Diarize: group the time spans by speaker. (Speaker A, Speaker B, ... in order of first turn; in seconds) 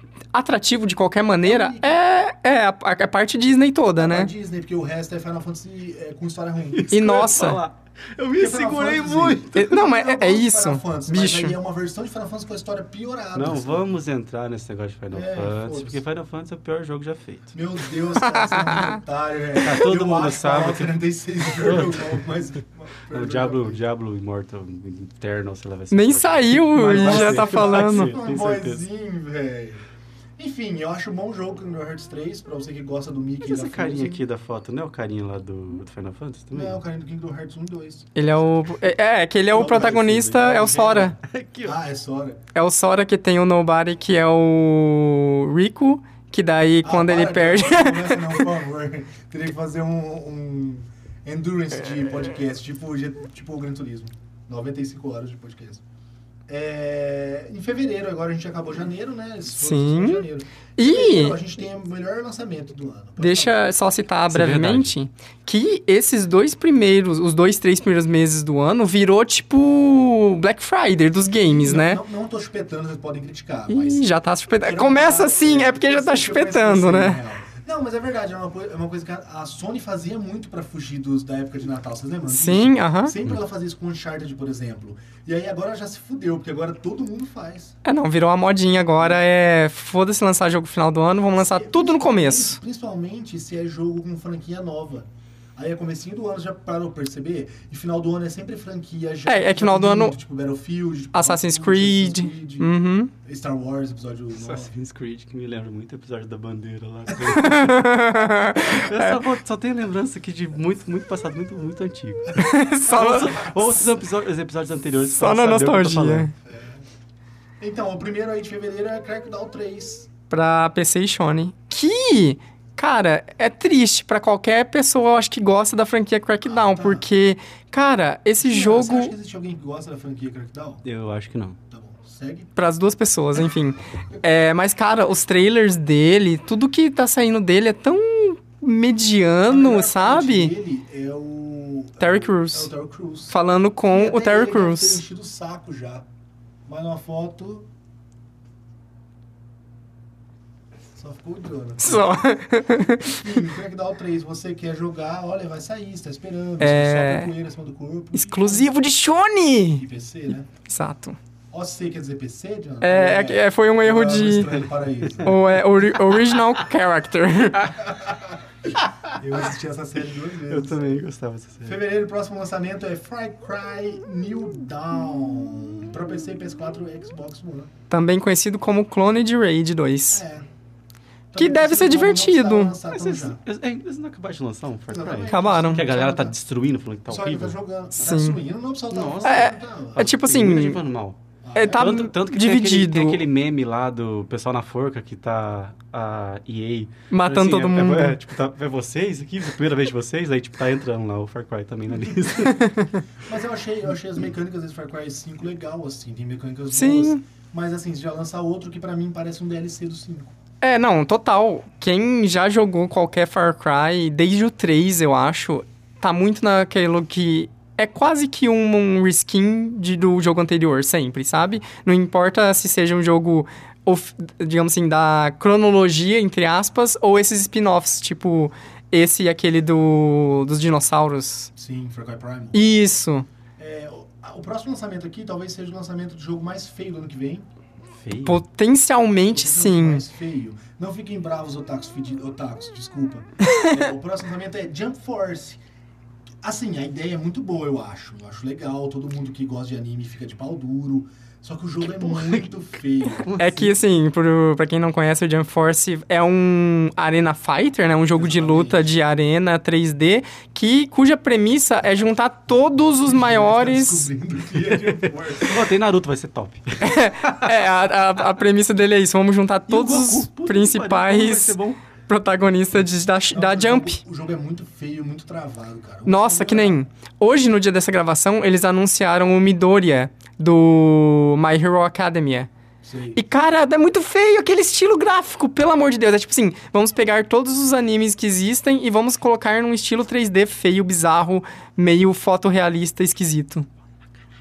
Speaker A: 0.3-4.3, 6.9-7.6, 9.5-11.6, 18.2-19.0, 25.9-28.1, 38.1-41.1, 42.5-48.4, 59.5-60.2, 60.8-61.4, 63.2-72.0, 73.7-77.2, 82.3-83.2, 87.8-92.6, 99.3-100.2, 101.1-103.1, 107.3-109.2, 112.3-113.4, 115.1-116.3, 120.3-129.1, 132.6-140.5, 142.0-142.7, 143.3-145.0, 151.8-153.2, 156.6-157.3, 158.1-159.8, 160.7-161.2, 162.8-164.6, 165.2-167.7, 177.9-180.2, 181.3-182.8, 185.3-185.8, 188.0-188.4, 189.2-190.8, 191.6-193.2, 197.1-198.2, 202.4-203.0, 206.7-207.2, 210.6-231.5, 232.5-233.3, 238.2-240.0, 253.4-264.1, 266.8-274.0, 276.1-282.5, 283.1-293.7
Speaker B: 1.4-2.0, 3.9-7.3, 8.4-13.9, 15.1-16.0, 17.5-23.8, 26.8-29.8, 30.4-34.2, 36.5-38.2, 39.5-42.4, 46.8-55.8, 56.5-63.6, 71.4-74.0, 74.6-87.8, 91.3-104.7, 112.9-113.8, 116.4-116.8, 117.6-120.1, 126.4-127.1, 128.4-130.8, 131.7-132.5, 139.5-143.3, 143.9-146.1, 146.7-147.7, 150.9-152.2, 152.8-158.7, 159.8-160.5, 161.5-165.4, 167.8-171.0, 171.6-177.7, 180.1-180.5, 181.3-183.4, 184.9-186.4, 187.1-190.1, 191.4-191.9, 203.2-210.3, 231.5-232.7, 233.6-237.5, 239.3-245.6, 246.4-253.3, 258.1-258.9, 263.0-265.7, 273.3-276.8, 282.8-283.2
Speaker C: 6.7-9.7, 13.3-17.6, 19.6-22.2, 23.1-28.8, 33.4-36.8, 41.2-41.7, 64.3-64.9, 104.3-108.0, 108.5-116.3, 130.8-131.6, 170.5-171.8, 182.9-187.6, 188.9-191.2, 191.7-202.7, 238.0-238.4, 251.9-252.5, 253.0-253.7, 265.4-267.5, 269.7-271.8